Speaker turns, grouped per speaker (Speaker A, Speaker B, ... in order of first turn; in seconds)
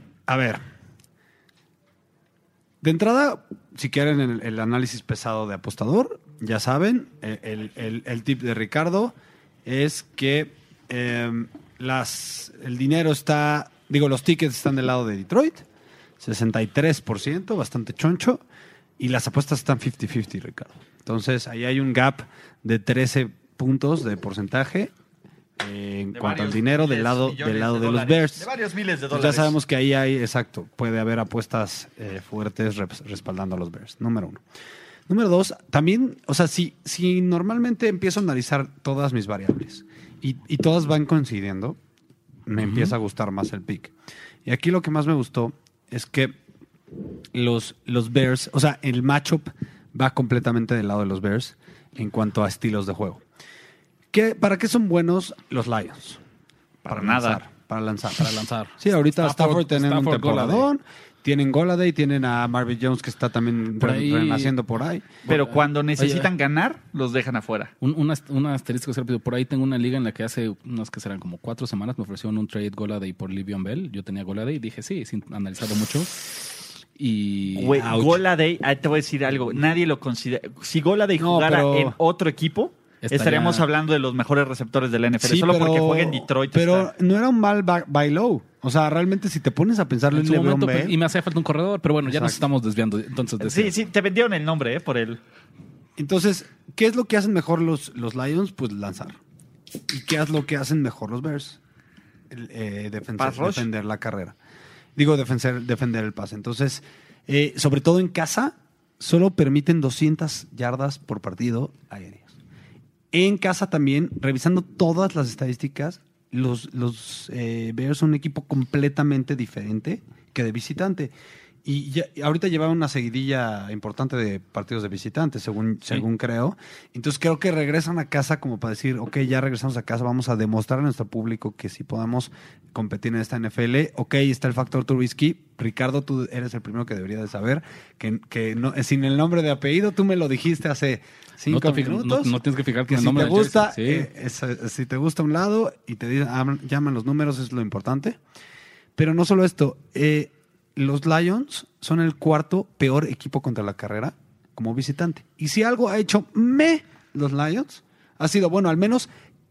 Speaker A: 0.3-0.6, 2.8-9.2, 9.7-15.6, 16.2-18.4, 19.0-24.9, 25.6-28.5, 29.1-34.4, 35.1-41.8, 42.5-43.9, 44.5-46.4, 47.3-53.2, 54.1-56.2, 56.9-65.1, 77.8-78.2, 81.2-82.0, 85.2-91.0, 92.1-92.4, 96.0-99.2, 99.9-101.6, 102.3-104.3, 105.0-112.3, 113.1-121.1, 121.7-142.4, 142.9-148.2, 149.0-159.1
Speaker B: 26.1-29.6, 56.8-57.4, 65.2-67.7, 77.5-86.9, 93.4-95.2, 103.2-103.7
Speaker C: 42.6-42.9, 58.2-60.7, 63.8-64.5, 65.2-66.3, 67.8-76.3, 77.0-78.1, 83.0-83.7, 90.1-93.7, 141.5-144.1